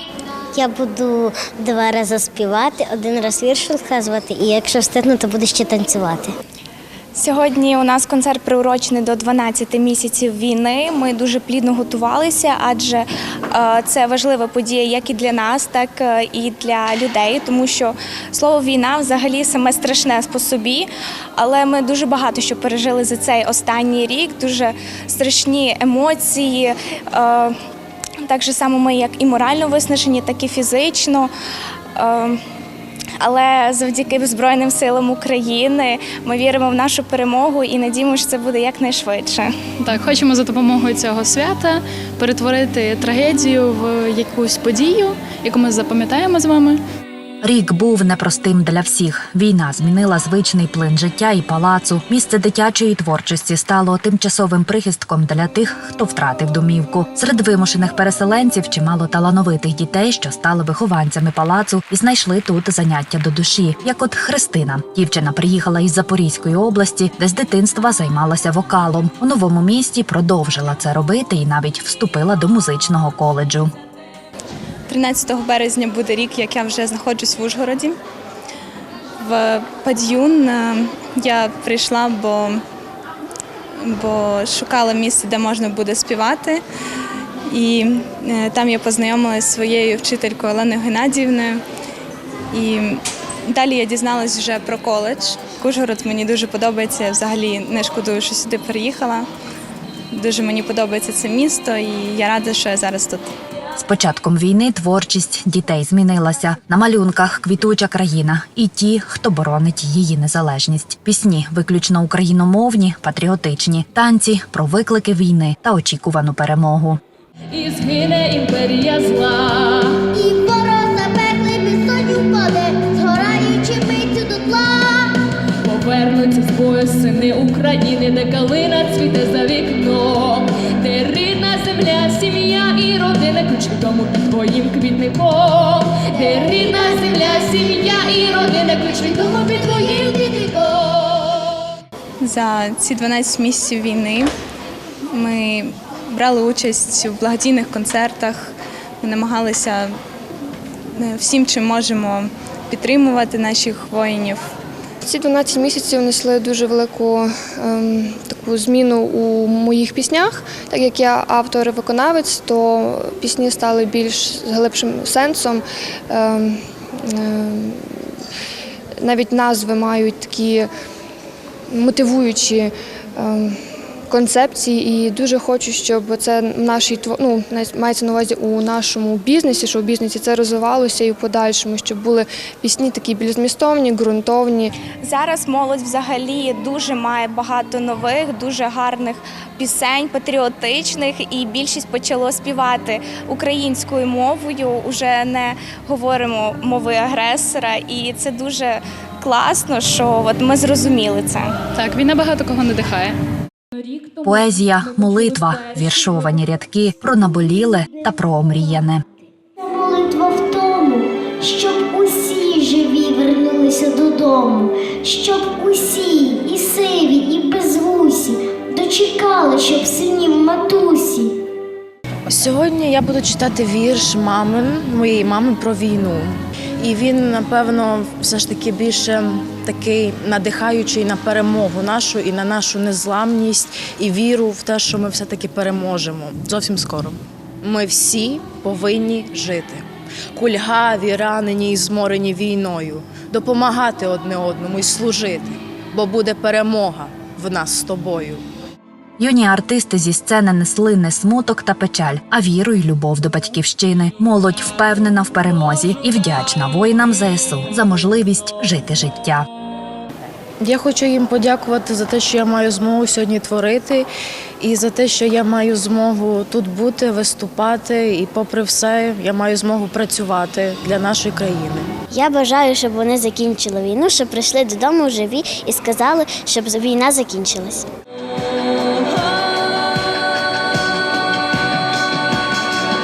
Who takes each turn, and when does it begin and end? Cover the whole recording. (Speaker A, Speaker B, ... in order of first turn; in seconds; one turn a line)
Speaker A: 0.6-6.3
Speaker B: 7.2-27.6
Speaker B: 28.2-31.3
Speaker B: 32.0-32.4
Speaker B: 33.2-39.5
Speaker C: 39.8-46.8
Speaker D: 47.4-73.7
Speaker B: 74.9-78.0
Speaker B: 79.2-82.6
Speaker B: 83.8-86.6
Speaker B: 87.5-91.6
Speaker B: 92.5-99.3
Speaker B: 100.1-103.3
Speaker D: 103.8-117.0
Speaker E: 117.5-120.0
Speaker F: 120.1-125.2
Speaker E: 125.6-141.5
Speaker B: 142.2-144.3
Speaker B: 145.1-148.5
Speaker B: 149.0-149.9
Speaker B: 151.0-154.5
Speaker G: 155.0-167.9
Speaker G: 169.0-170.7
Speaker G: 171.7-173.6
Speaker G: 174.1-184.7
Speaker B: 185.0-201.6
Speaker C: 201.8-203.2
Speaker E: 203.8-204.2
Speaker D: 204.2-209.0
Speaker F: 209.6-221.4
Speaker H: 222.3-248.4
Speaker D: 249.2-259.5
Speaker H: 260.6-264.1
Speaker H: 264.6-271.9
Speaker A: 272.1-277.9
Speaker E: 278.9-280.1